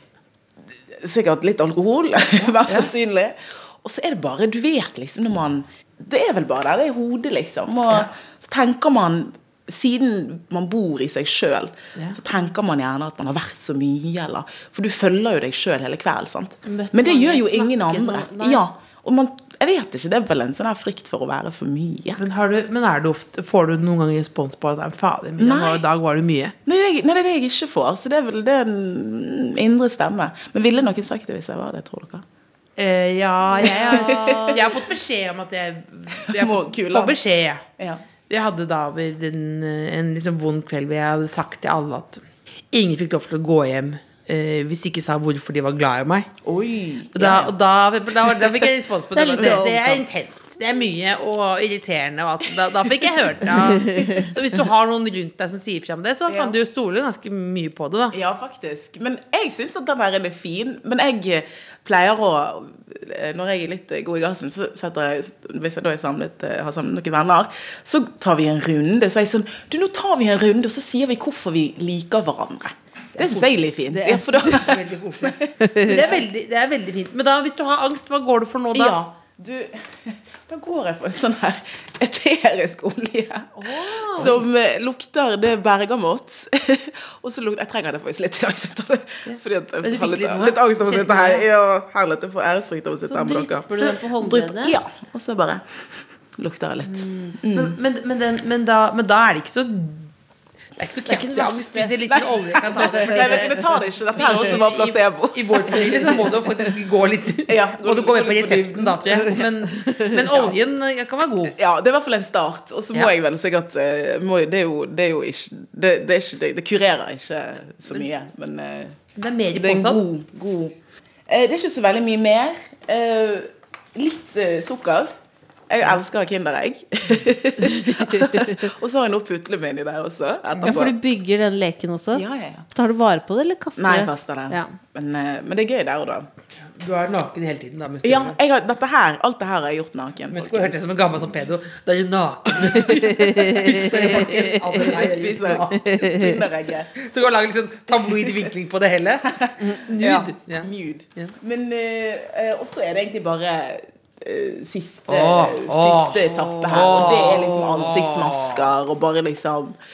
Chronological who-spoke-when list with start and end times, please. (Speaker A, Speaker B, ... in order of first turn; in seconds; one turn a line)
Speaker A: 0.7-22.2
Speaker B: 2.4-2.9
Speaker C: 16.7-18.6
Speaker B: 22.1-26.5
Speaker A: 25.4-25.8
Speaker A: 26.6-32.2
Speaker B: 32.8-37.6
Speaker A: 33.5-34.8
Speaker A: 36.1-37.2
Speaker A: 37.8-38.0
Speaker B: 38.3-46.3
Speaker A: 46.4-47.5
Speaker B: 47.1-58.1
Speaker C: 49.1-50.0
Speaker A: 49.3-49.8
Speaker A: 52.8-54.2
Speaker A: 56.3-56.5
Speaker A: 58.1-76.1
Speaker B: 73.1-79.0
Speaker A: 78.7-83.5
Speaker C: 83.5-84.4
Speaker A: 84.1-95.6
Speaker B: 84.1-84.4
Speaker B: 89.2-91.4
Speaker C: 93.1-94.7
Speaker A: 96.3-97.8
Speaker C: 96.9-97.3
Speaker B: 97.5-100.1
Speaker B: 100.8-103.5
Speaker C: 101.1-101.9
Speaker A: 102.0-106.2
Speaker C: 102.9-103.2
Speaker B: 104.2-111.5
Speaker A: 107.5-109.5
Speaker A: 110.0-110.5
Speaker A: 111.6-119.0
Speaker B: 119.2-120.0
Speaker A: 119.5-120.7
Speaker A: 121.3-125.1
Speaker A: 125.7-130.9
Speaker C: 130.6-134.7
Speaker A: 132.1-132.7
Speaker A: 133.8-136.3
Speaker B: 136.6-138.4
Speaker A: 138.0-140.8
Speaker B: 140.3-146.1
Speaker C: 143.3-144.5
Speaker A: 144.8-147.2
Speaker C: 145.8-146.3
Speaker B: 147.0-151.3
Speaker A: 149.3-159.8
Speaker B: 155.1-158.7